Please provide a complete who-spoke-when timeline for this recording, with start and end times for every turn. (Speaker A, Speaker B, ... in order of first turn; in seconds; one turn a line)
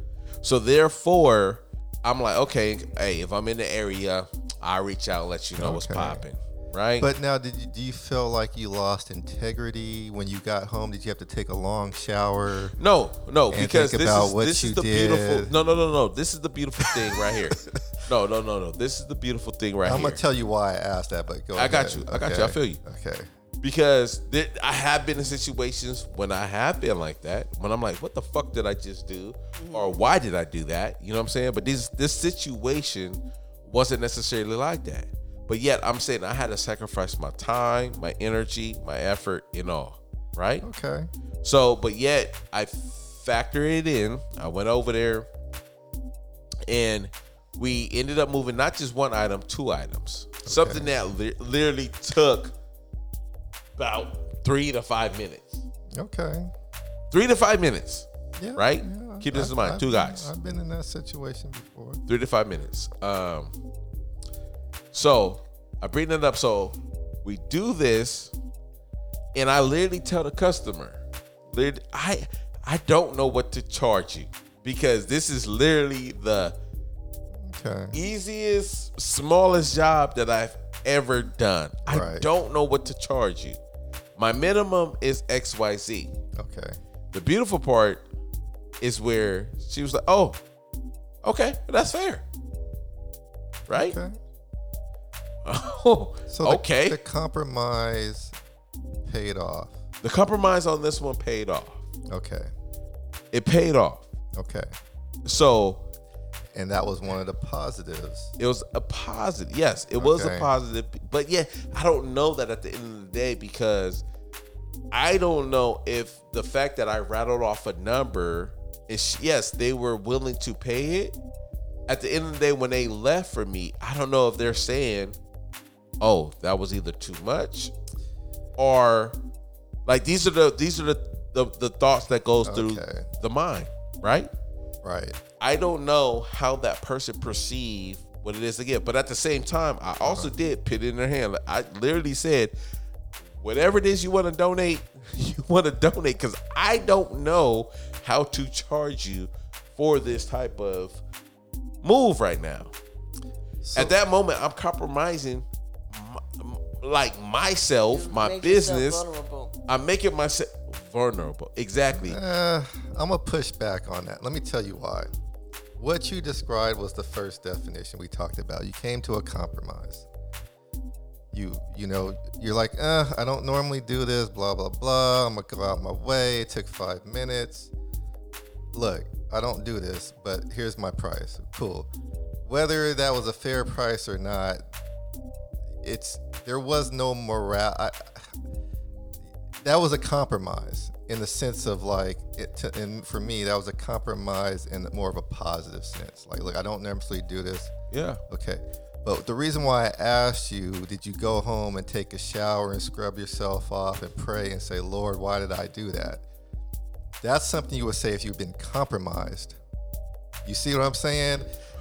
Speaker A: 0.4-7.1
Speaker B: 5.6-6.2
Speaker B: 7.0-12.8
Speaker A: 12.8-20.2
Speaker B: 13.5-15.5
Speaker B: 16.8-17.8
Speaker B: 19.8-23.3
Speaker A: 21.6-22.8
Speaker A: 23.6-40.6
Speaker C: 29.6-29.9
Speaker B: 40.6-41.1
Speaker A: 41.4-45.3
Speaker A: 46.7-52.5
Speaker B: 50.5-50.9
Speaker A: 53.8-55.6
Speaker B: 55.9-56.5
Speaker A: 57.1-60.3
Speaker B: 58.4-62.0
Speaker A: 62.1-63.5
Speaker A: 64.9-68.3
Speaker A: 69.3-71.0
Speaker A: 71.5-76.5
Speaker B: 77.4-78.0
Speaker A: 77.9-83.6
Speaker B: 81.9-82.3
Speaker A: 84.2-86.1
Speaker B: 86.4-86.8
Speaker A: 87.1-88.0
Speaker A: 88.8-90.4
Speaker A: 91.2-92.2
Speaker A: 93.7-94.0
Speaker B: 93.8-94.2
Speaker A: 95.5-97.0
Speaker B: 96.3-98.3
Speaker B: 99.0-99.8
Speaker A: 100.0-101.8
Speaker B: 102.1-102.5
Speaker A: 103.3-104.1
Speaker B: 104.3-104.7
Speaker A: 105.3-105.8
Speaker B: 106.5-108.3
Speaker A: 108.4-114.0
Speaker B: 110.0-110.5
Speaker A: 114.9-121.2
Speaker A: 121.9-125.2
Speaker A: 126.0-127.7
Speaker A: 128.6-129.2
Speaker A: 129.9-134.3
Speaker B: 132.4-133.1
Speaker B: 134.8-135.2
Speaker A: 135.4-142.5
Speaker B: 140.0-140.3
Speaker A: 143.4-151.0
Speaker A: 151.8-152.7
Speaker B: 153.6-153.9
Speaker A: 153.8-159.1
Speaker C: 157.9-159.5
Speaker A: 159.7-162.2
Speaker B: 161.9-165.1
Speaker B: 165.8-170.1
Speaker B: 171.3-177.7
Speaker B: 178.7-181.9
Speaker B: 182.4-184.6
Speaker B: 185.8-188.3
Speaker B: 189.6-197.7
Speaker A: 197.9-198.2
Speaker B: 198.3-206.2
Speaker B: 207.2-209.6
Speaker B: 210.4-211.5